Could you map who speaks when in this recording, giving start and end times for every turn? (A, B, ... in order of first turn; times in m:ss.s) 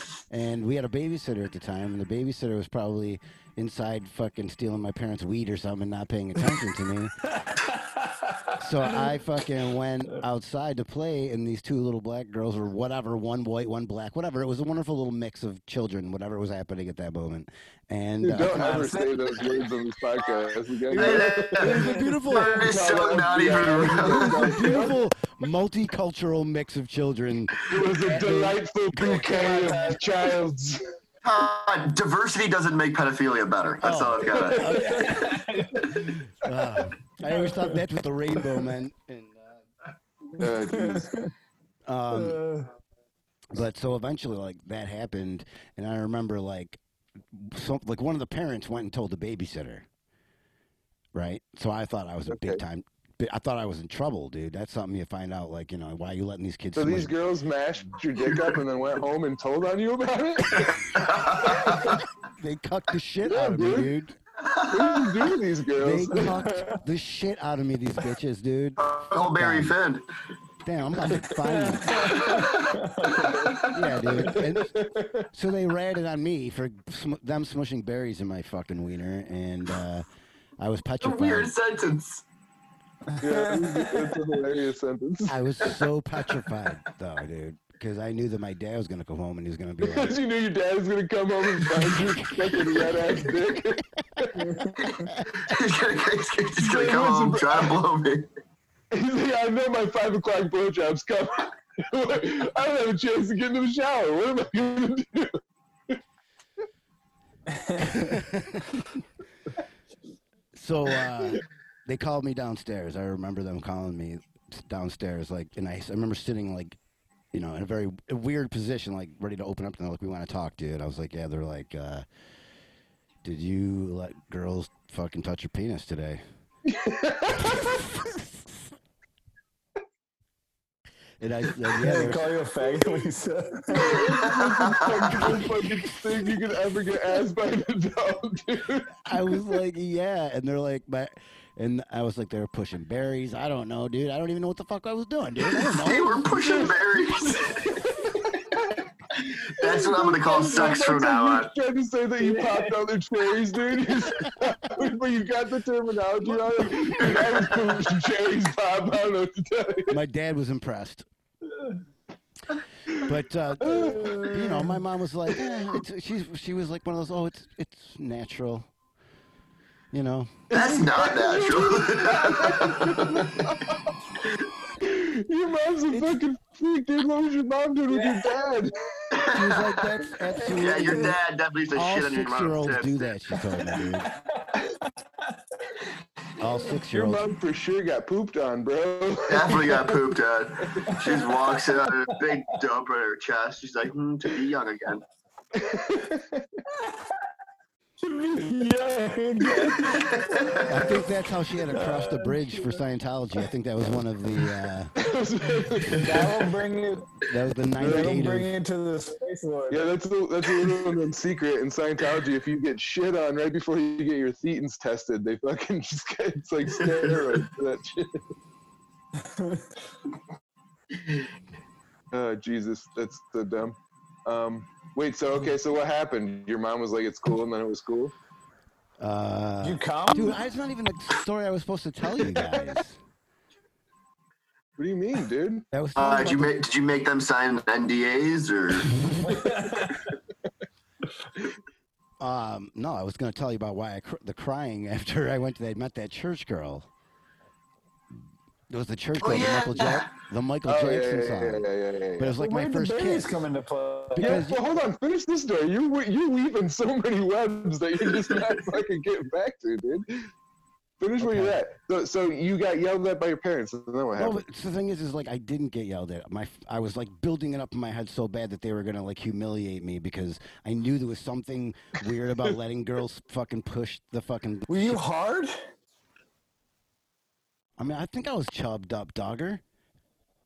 0:00.3-0:07.1 A
0:07.3-0:09.1 B
0:08.6-0:18.8 A
0:18.2-0:24.9 C
0:18.5-0:19.7 B
0:20.2-0:20.5 B
0:20.9-0:22.7 A
0:20.9-0:24.6 D
0:24.1-0:28.6 A
0:27.7-0:30.8 C
0:28.0-0:28.4 B
0:28.9-0:30.2 B
0:31.2-0:34.7 D
0:33.8-0:39.4 A
0:34.3-0:34.8 C
0:34.7-0:35.9 B
0:40.4-0:41.1 C
0:40.4-0:41.3 B
0:41.8-0:42.4 A
0:42.1-0:42.7 B
0:43.5-0:46.8 A
0:47.3-0:49.8 A
0:51.1-0:57.1 A
0:52.3-0:52.6 C
0:56.8-1:00.9 C
1:00.9-1:02.0 D
1:01.4-1:02.0 C
1:02.4-1:04.2 A
1:03.2-1:03.9 C
1:04.4-1:05.2 D
1:04.7-1:06.3 C
1:05.8-1:09.7 A
1:06.1-1:06.8 B
1:08.8-1:10.1 D
1:10.6-1:12.3 A
1:11.1-1:13.7 B
1:13.7-1:14.8 A
1:14.3-1:15.2 C
1:15.3-1:20.0 A
1:20.6-1:21.5 A
1:21.0-1:22.2 D
1:23.1-1:24.3 B
1:23.2-1:25.8 C
1:25.2-1:30.2 A
1:29.8-1:34.3 C
1:31.9-1:32.9 A
1:34.3-1:34.9 B
1:34.8-1:38.3 D
1:36.6-1:37.8 C
1:38.9-1:45.4 C
1:47.5-1:48.2 B
1:47.8-1:48.8 A
1:50.5-1:56.8 A
1:57.3-2:02.0 A
2:03.2-2:06.2 A
2:06.6-2:07.6 C
2:07.4-2:08.5 A
2:11.2-2:12.3 A
2:11.8-2:14.0 B
2:13.7-2:19.0 C
2:14.2-2:15.1 D
2:15.1-2:16.3 A
2:19.0-2:26.3 A
2:25.5-2:27.8 D
2:26.3-2:27.3 C
2:27.7-2:28.3 B
2:29.2-2:31.5 D
2:29.6-2:39.9 C
2:32.2-2:32.8 B
2:37.0-2:37.6 D
2:39.9-2:41.1 A
2:41.5-2:41.8 B
2:43.0-2:48.7 A
2:43.6-2:44.8 B
2:43.6-2:44.1 C
2:49.9-2:50.5 A
2:50.5-2:53.8 C
2:50.5-2:53.5 D
2:54.8-2:58.7 C
2:55.9-2:56.2 A
2:57.9-2:58.4 B
2:59.1-2:59.8 D
2:59.3-3:01.2 A
3:00.1-3:01.1 B
3:00.5-3:03.1 D
3:01.7-3:04.1 A
3:04.4-3:04.9 B
3:06.4-3:07.2 A
3:06.9-3:10.0 C
3:09.3-3:15.0 D
3:10.9-3:11.1 B
3:15.6-3:16.4 C
3:16.7-3:17.1 B
3:18.0-3:22.8 B
3:19.8-3:20.3 D
3:20.7-3:24.9 A
3:25.0-3:26.3 C
3:25.9-3:27.1 B
3:27.2-3:28.5 A
3:27.8-3:29.8 B
3:27.8-3:28.2 C
3:29.7-3:38.2 C
3:39.2-3:39.7 B
3:42.1-3:48.1 C
3:49.0-3:53.0 A
3:49.6-3:50.4 B
3:54.8-3:55.6 C
3:55.7-3:56.6 A
3:56.0-3:59.1 D
3:59.2-4:00.0 B
4:02.2-4:06.9 A
4:08.7-4:11.6 A
4:09.2-4:10.1 D
4:10.7-4:12.3 C
4:12.2-4:13.4 A
4:12.4-4:14.4 B
4:14.2-4:14.6 A
4:14.2-4:20.3 C
4:21.0-4:24.4 C
4:21.2-4:21.6 A
4:24.2-4:35.0 A
4:34.7-4:35.6 B
4:37.8-4:39.6 A